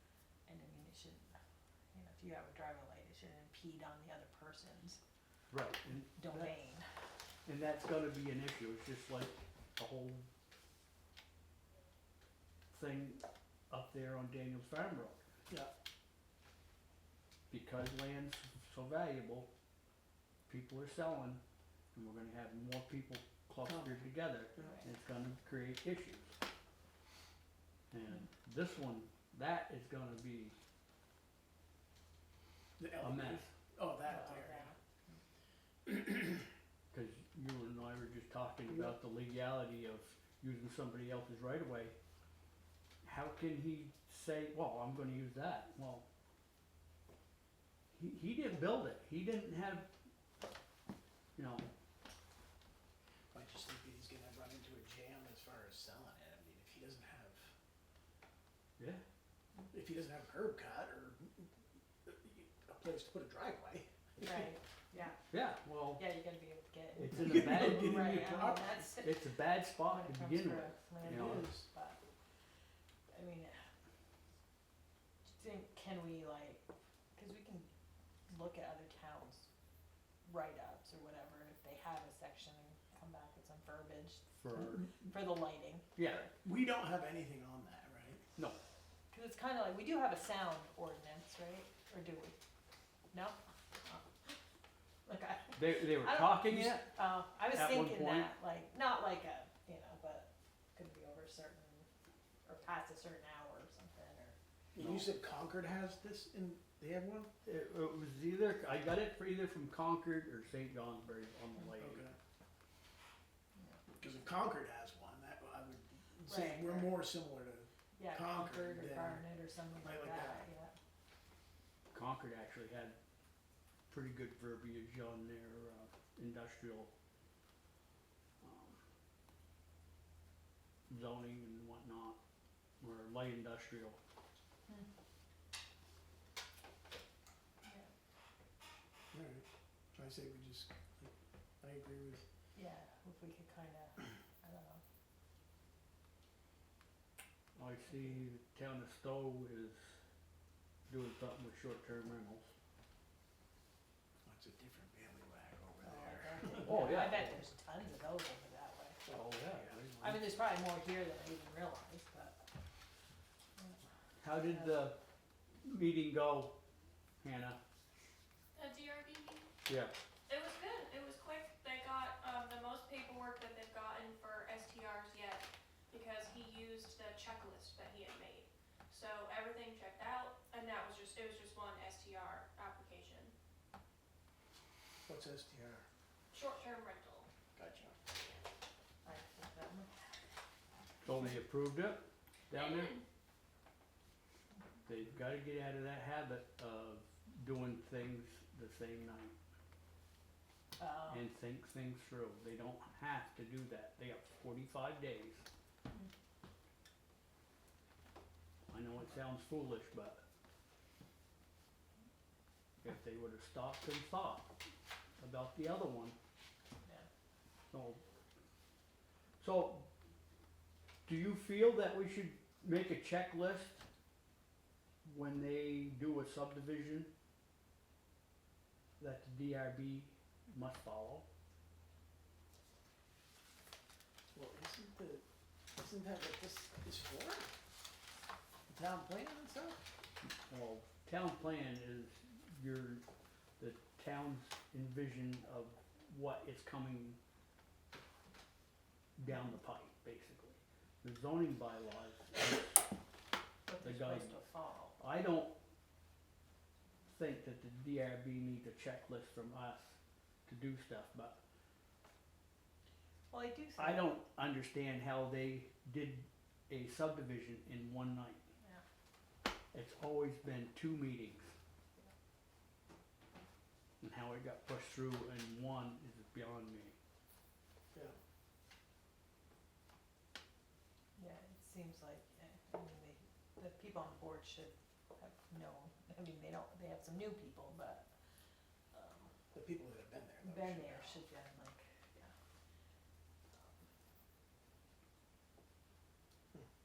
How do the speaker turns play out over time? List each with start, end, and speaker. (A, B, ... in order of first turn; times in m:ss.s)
0:00.5-0:01.4 A
0:01.9-0:05.0 A
0:05.5-0:06.5 B
0:06.1-0:06.8 A
0:07.4-0:10.3 B
0:12.7-0:15.2 B
0:17.5-0:19.5 B
0:20.5-0:21.4 B
0:21.9-0:26.3 B
0:23.7-0:23.9 C
0:24.6-0:24.8 A
0:27.9-0:30.6 B
0:32.8-0:34.7 C
0:33.0-0:33.5 B
0:34.0-0:35.2 A
0:36.9-0:41.9 B
0:43.0-0:46.0 B
0:47.9-0:49.9 B
0:51.4-0:51.7 B
0:53.3-0:57.5 C
0:59.7-1:01.5 C
1:02.0-1:04.5 C
1:04.2-1:05.2 A
1:05.3-1:06.0 B
1:06.0-1:09.2 A
1:07.0-1:11.5 B
1:07.1-1:08.7 C
1:09.8-1:12.0 A
1:11.0-1:11.7 C
1:13.1-1:13.6 A
1:15.2-1:16.6 A
1:17.1-1:17.7 A
1:18.3-1:19.5 A
1:20.2-1:26.3 A
1:24.4-1:24.8 B
1:26.0-1:26.2 B
1:26.4-1:28.2 C
1:29.1-1:32.4 A
1:33.1-1:34.3 A
1:35.0-1:41.9 A
1:35.5-1:38.3 B
1:42.4-1:44.4 A
1:44.8-1:47.3 C
1:44.8-1:45.1 B
1:47.4-1:52.0 B
1:51.8-1:52.2 C
1:53.6-1:53.8 A
1:54.0-1:59.3 C
1:56.2-1:57.0 A
1:58.0-2:00.7 A
1:59.8-2:00.5 C
2:01.9-2:03.0 B
2:03.9-2:06.9 B
2:08.4-2:08.8 B
2:10.9-2:12.2 B
2:12.8-2:14.0 B
2:17.6-2:17.9 A
2:19.1-2:22.2 C
2:22.5-2:24.8 A
2:27.6-2:29.8 B
2:30.9-2:32.5 B
2:34.2-2:36.9 C
2:35.8-2:39.0 A
2:36.6-2:37.4 B
2:39.0-2:40.2 B
2:39.5-2:39.8 C
2:40.0-2:42.4 A
2:43.6-2:44.9 A
2:44.2-2:45.0 B
2:45.6-2:46.5 B
2:47.2-2:47.6 B
2:48.5-2:49.5 D
2:49.6-2:49.9 B
2:50.3-3:03.3 D
3:05.0-3:05.8 C
3:06.3-3:07.3 D
3:07.5-3:08.0 C
3:09.0-3:09.9 A
3:11.0-3:13.0 B
3:12.5-3:13.0 D
3:14.8-3:19.4 B
3:20.8-3:21.2 A
3:21.1-3:25.4 B
3:28.7-3:30.2 B
3:32.8-3:34.5 B
3:35.2-3:36.2 B
3:37.7-3:38.0 B
3:39.4-3:39.9 B
3:41.0-3:43.8 B
3:45.0-3:47.1 B
3:49.0-3:51.2 B
3:54.3-3:55.2 C
3:55.8-3:57.5 C
3:58.7-3:59.8 C
4:00.2-4:03.0 B
4:03.6-4:07.2 B
4:09.2-4:12.8 B
4:13.7-4:15.0 A
4:13.8-4:14.4 B
4:15.0-4:15.5 B
4:17.1-4:21.4 B
4:23.3-4:24.1 A
4:23.8-4:28.4 B
4:29.7-4:31.5 B
4:34.0-4:37.0 B
4:41.2-4:48.1 A
4:48.9-4:49.3 A
4:49.5-4:51.2 C
4:50.4-4:52.3 A
4:53.5-4:53.8 A